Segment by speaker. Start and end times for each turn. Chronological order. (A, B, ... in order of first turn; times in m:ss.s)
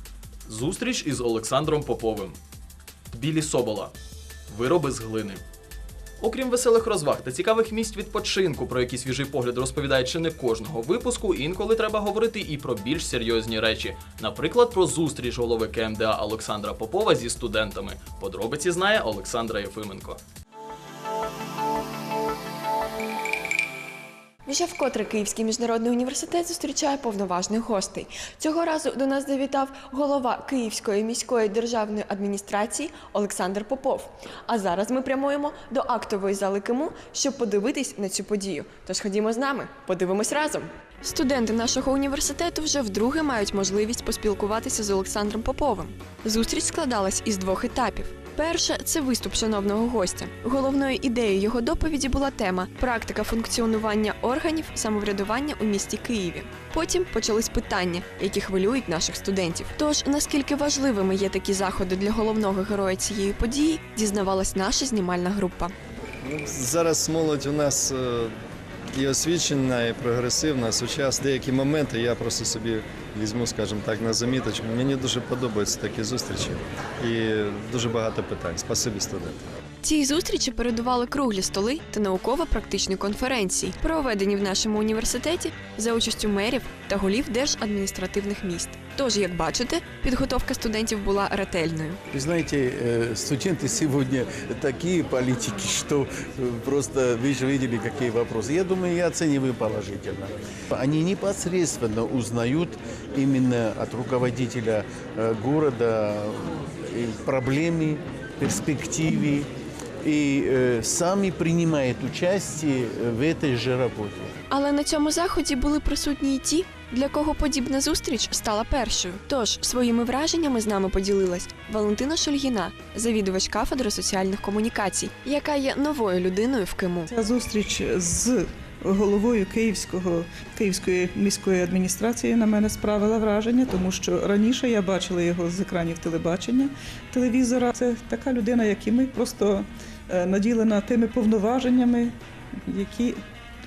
0:00.5-0:02.4 A
0:03.1-0:03.9 A
0:04.5-0:05.4 A
0:06.2-0:20.2 A
0:24.5-1:05.7 B
1:06.2-1:08.3 C
1:08.9-1:19.4 C
1:19.8-1:32.0 B
1:32.1-1:49.5 D
1:50.0-1:54.3 D
1:54.5-2:07.1 B
2:07.1-2:22.1 E
2:22.6-2:23.2 E